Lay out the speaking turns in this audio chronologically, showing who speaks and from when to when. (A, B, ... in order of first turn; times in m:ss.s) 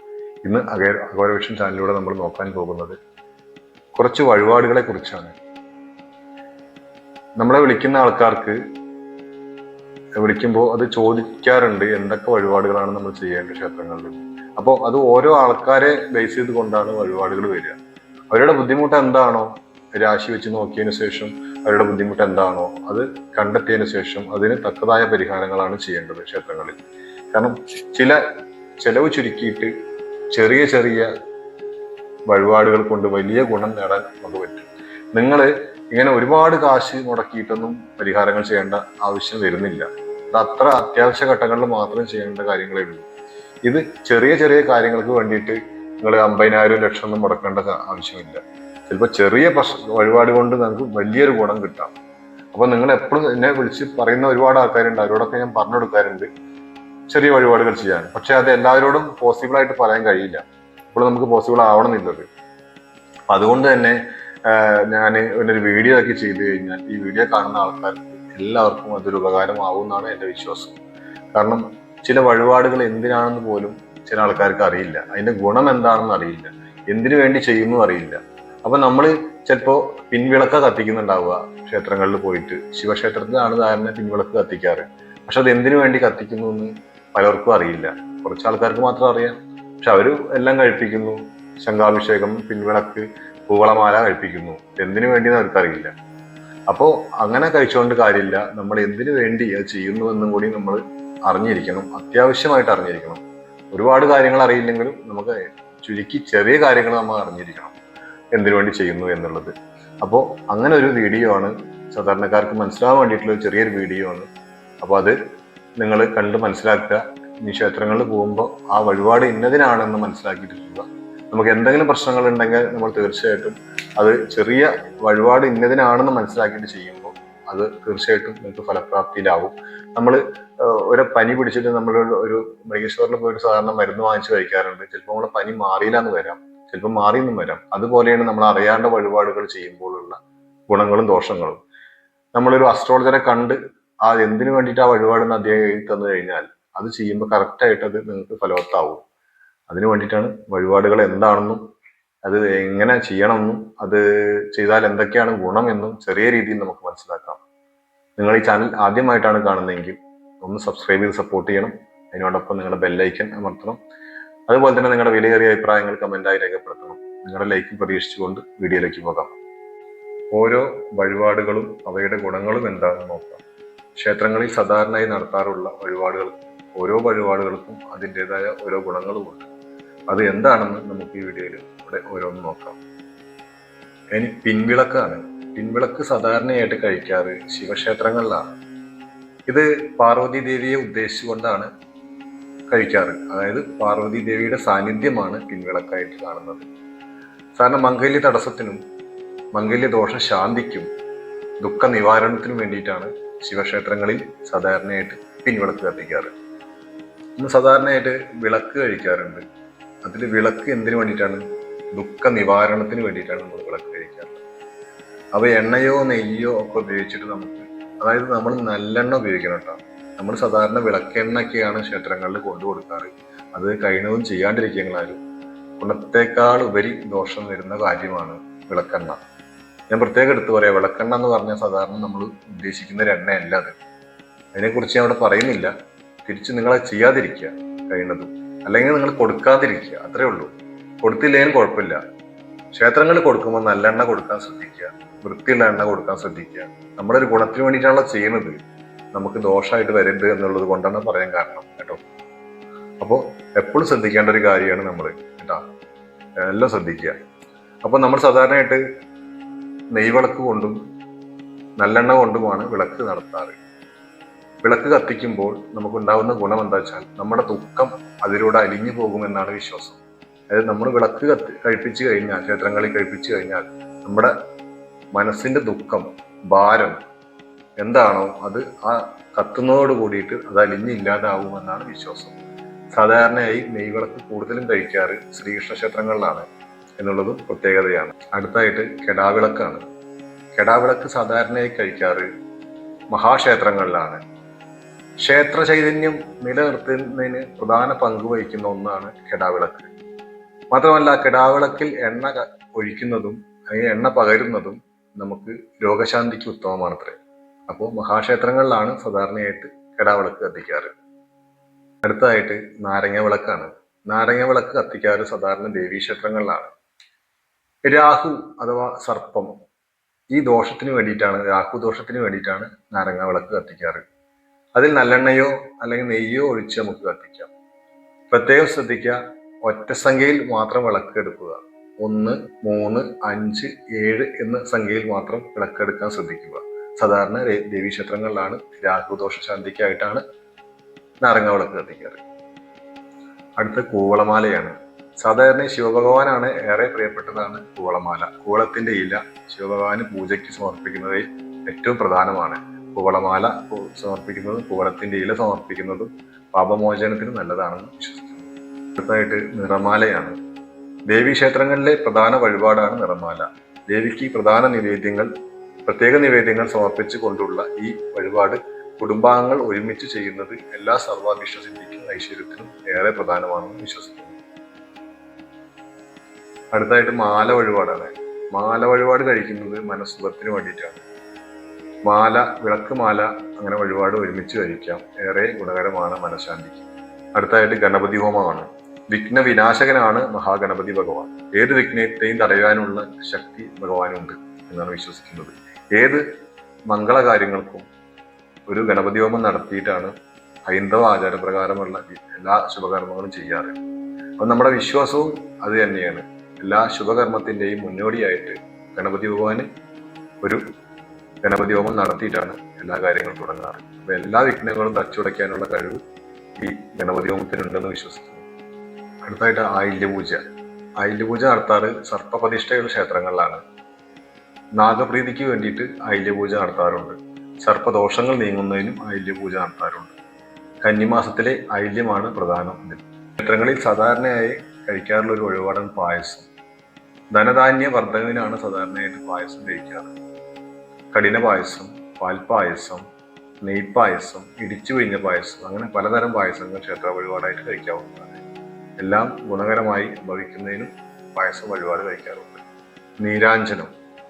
0:00.4-0:03.0 A
0:04.0-0:05.3 A
0:07.4-0:08.6 A
0:10.2-0:17.8 A
0:18.3-0:26.8 A
0:27.3-0:28.2 A
0:28.8-0:29.7 A
0:30.3-0:31.1 A
0:32.3-0:43.1 A
0:43.6-0:51.9 A
0:52.5-0:56.3 A
0:57.1-1:02.3 A
1:03.3-1:10.8 A
1:11.3-1:35.9 A
1:36.7-1:47.8 A
1:48.3-1:54.3 A
1:54.8-1:55.2 A
1:55.8-2:20.2 A
2:20.7-2:21.6 A
2:22.4-2:29.0 A
2:29.7-2:31.6 A
2:32.2-2:37.4 A
2:38.2-2:43.8 A
2:44.5-2:49.3 A
2:50.3-2:53.4 A
2:54.0-2:59.5 A
3:00.1-3:02.8 A
3:04.1-3:08.5 A
3:09.5-3:11.7 A
3:12.7-3:16.7 A
3:17.6-3:18.8 A
3:19.5-3:20.9 A
3:21.6-3:26.3 A
3:27.4-3:29.4 A
3:30.0-3:34.4 A
3:35.3-3:45.2 A
3:45.8-3:49.2 A
3:49.9-3:53.7 A
3:54.5-3:55.7 A
3:56.2-4:00.5 A
4:01.0-4:02.0 A
4:02.7-4:08.6 A
4:09.1-4:12.0 A
4:13.0-4:15.6 A
4:16.4-4:17.2 A
4:17.8-4:18.8 A
4:19.9-4:20.8 A
4:21.8-4:23.6 A
4:24.6-4:34.3 A
4:35.1-4:37.0 A
4:37.8-4:42.4 A
4:42.9-4:46.4 A
4:47.0-4:49.8 A
4:50.6-4:52.3 A
4:53.1-4:54.2 A
4:55.2-4:59.9 A
5:00.7-5:07.2 A
5:07.7-5:10.9 A
5:12.0-5:16.7 A
5:17.8-5:19.5 A
5:20.3-5:24.0 A
5:24.8-5:27.5 A
5:28.3-5:40.2 A
5:41.2-5:42.2 A
5:43.6-6:00.4 A
6:01.1-6:05.3 A
6:05.9-6:14.4 A
6:16.7-6:21.0 A
6:22.0-6:36.2 A
6:36.9-6:37.9 A
6:38.7-6:40.1 A
6:40.7-6:43.8 A
6:44.4-6:49.7 A
6:51.4-6:56.0 A
6:56.6-6:58.4 A
6:59.2-7:00.4 A
7:01.0-7:03.6 A
7:04.8-7:10.1 A
7:10.8-7:16.5 A
7:17.3-7:20.1 A
7:21.1-7:23.0 A
7:23.6-7:28.4 A
7:29.0-7:32.6 A
7:33.2-7:33.9 A